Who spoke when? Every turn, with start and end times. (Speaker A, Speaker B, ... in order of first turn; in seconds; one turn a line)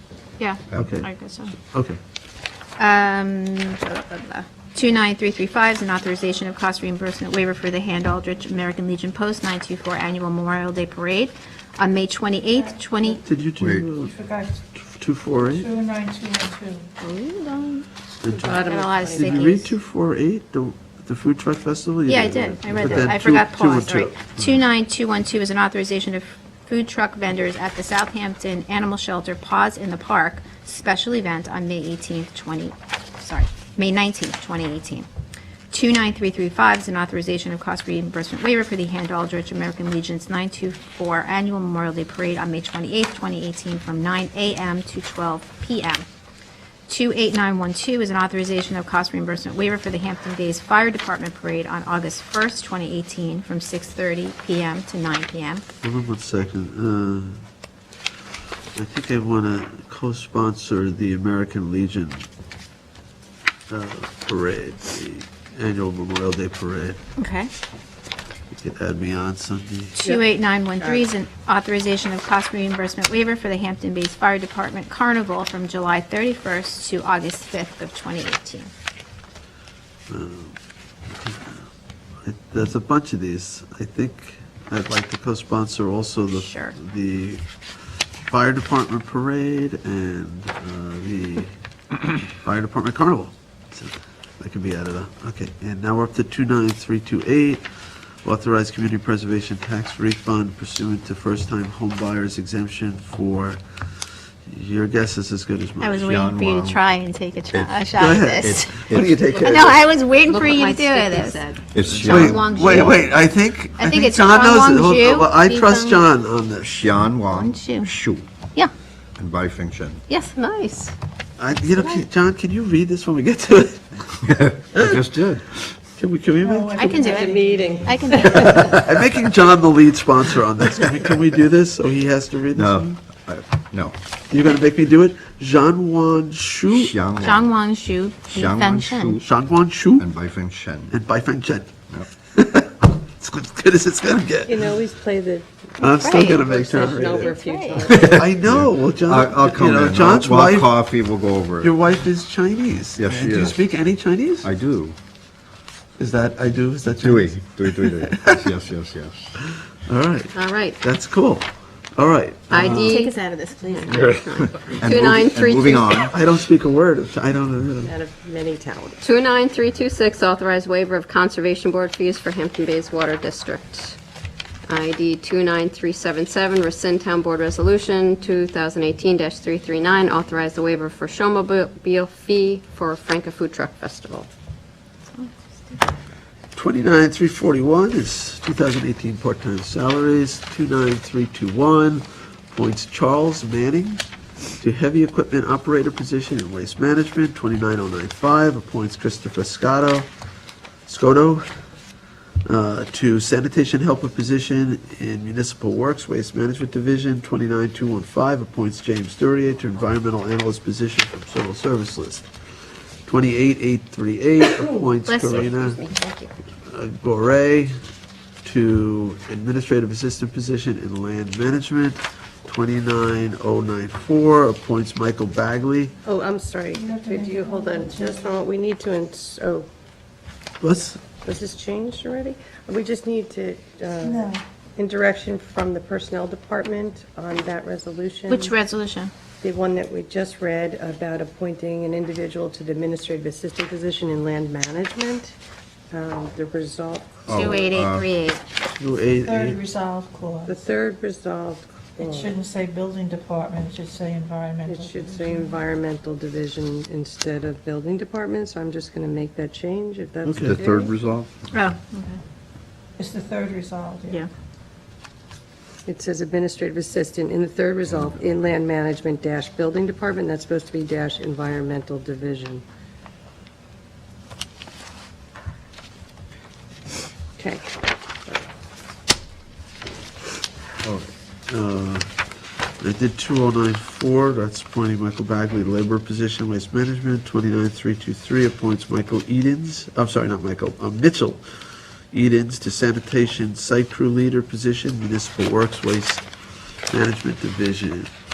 Speaker A: 0.4-1.5
Speaker B: 0.7-2.0
Speaker A: 2.8-13.2
Speaker C: 12.5-13.2
Speaker B: 13.2-14.1
Speaker D: 13.6-13.9
Speaker C: 14.0-14.7
Speaker B: 14.7-15.7
Speaker C: 15.3-16.9
Speaker A: 17.0-17.9
Speaker B: 18.2-24.6
Speaker E: 18.4-19.6
Speaker A: 18.6-19.8
Speaker A: 22.1-35.1
Speaker A: 35.7-46.1
Speaker A: 46.9-55.7
Speaker B: 55.8-57.4
Speaker B: 58.8-62.3
Speaker B: 63.7-67.0
Speaker A: 67.2-67.5
Speaker B: 68.5-70.1
Speaker A: 70.0-78.7
Speaker E: 70.0-71.1
Speaker B: 80.1-80.6
Speaker B: 81.1-81.7
Speaker B: 82.2-87.5
Speaker A: 86.3-86.8
Speaker B: 88.3-91.5
Speaker B: 92.2-97.7
Speaker B: 98.2-103.6
Speaker B: 104.5-106.3
Speaker A: 105.8-113.1
Speaker D: 106.0-106.8
Speaker B: 108.0-110.4
Speaker D: 108.4-109.2
Speaker F: 110.3-111.6
Speaker D: 111.7-112.9
Speaker B: 111.9-116.9
Speaker A: 113.7-116.1
Speaker D: 116.6-118.3
Speaker A: 117.3-117.9
Speaker D: 119.2-120.0
Speaker A: 120.1-120.3
Speaker F: 120.4-120.9
Speaker B: 121.4-124.9
Speaker A: 121.8-122.1
Speaker D: 124.3-125.6
Speaker B: 126.0-127.1
Speaker C: 126.4-128.8
Speaker A: 126.8-127.3
Speaker E: 126.9-128.8
Speaker A: 127.9-128.7
Speaker B: 128.2-133.0
Speaker D: 132.5-134.0
Speaker B: 134.3-136.9
Speaker D: 136.7-137.7
Speaker A: 137.2-139.2
Speaker D: 138.3-139.3
Speaker B: 139.2-140.1
Speaker D: 139.9-140.9
Speaker B: 140.9-141.7
Speaker B: 142.3-144.6
Speaker E: 144.5-148.2
Speaker B: 145.8-150.9
Speaker A: 146.0-147.9
Speaker D: 147.9-151.8
Speaker B: 151.6-154.5
Speaker D: 153.0-153.6
Speaker D: 154.4-155.0
Speaker B: 156.0-158.4
Speaker D: 157.0-159.3
Speaker B: 159.8-163.0
Speaker F: 160.3-160.8
Speaker F: 162.5-166.1
Speaker A: 162.9-163.8
Speaker D: 163.9-166.2
Speaker B: 166.0-167.9
Speaker E: 167.8-169.0
Speaker F: 169.0-174.0
Speaker F: 174.7-184.3
Speaker A: 185.1-185.8
Speaker B: 186.6-194.0
Speaker B: 194.6-200.1
Speaker B: 200.9-201.6
Speaker B: 202.4-212.3
Speaker B: 213.1-215.8
Speaker A: 215.1-215.3
Speaker F: 215.3-216.0
Speaker A: 215.9-216.3
Speaker B: 216.7-217.8
Speaker B: 218.4-226.0
Speaker E: 226.1-229.7
Speaker C: 226.7-228.3
Speaker B: 230.6-231.0
Speaker E: 231.2-238.6
Speaker C: 234.0-234.4
Speaker A: 238.3-239.1
Speaker E: 239.4-245.3
Speaker E: 245.9-247.6
Speaker D: 247.3-248.1
Speaker A: 247.3-248.4
Speaker B: 248.7-249.6
Speaker C: 249.2-250.6
Speaker E: 250.5-252.4
Speaker C: 252.0-255.6
Speaker E: 254.7-260.9
Speaker B: 260.2-260.6
Speaker D: 260.4-261.3
Speaker A: 261.5-262.2
Speaker C: 263.0-264.3
Speaker E: 265.9-272.6
Speaker E: 277.4-278.5
Speaker B: 281.5-282.2
Speaker B: 282.8-296.2
Speaker B: 296.9-298.1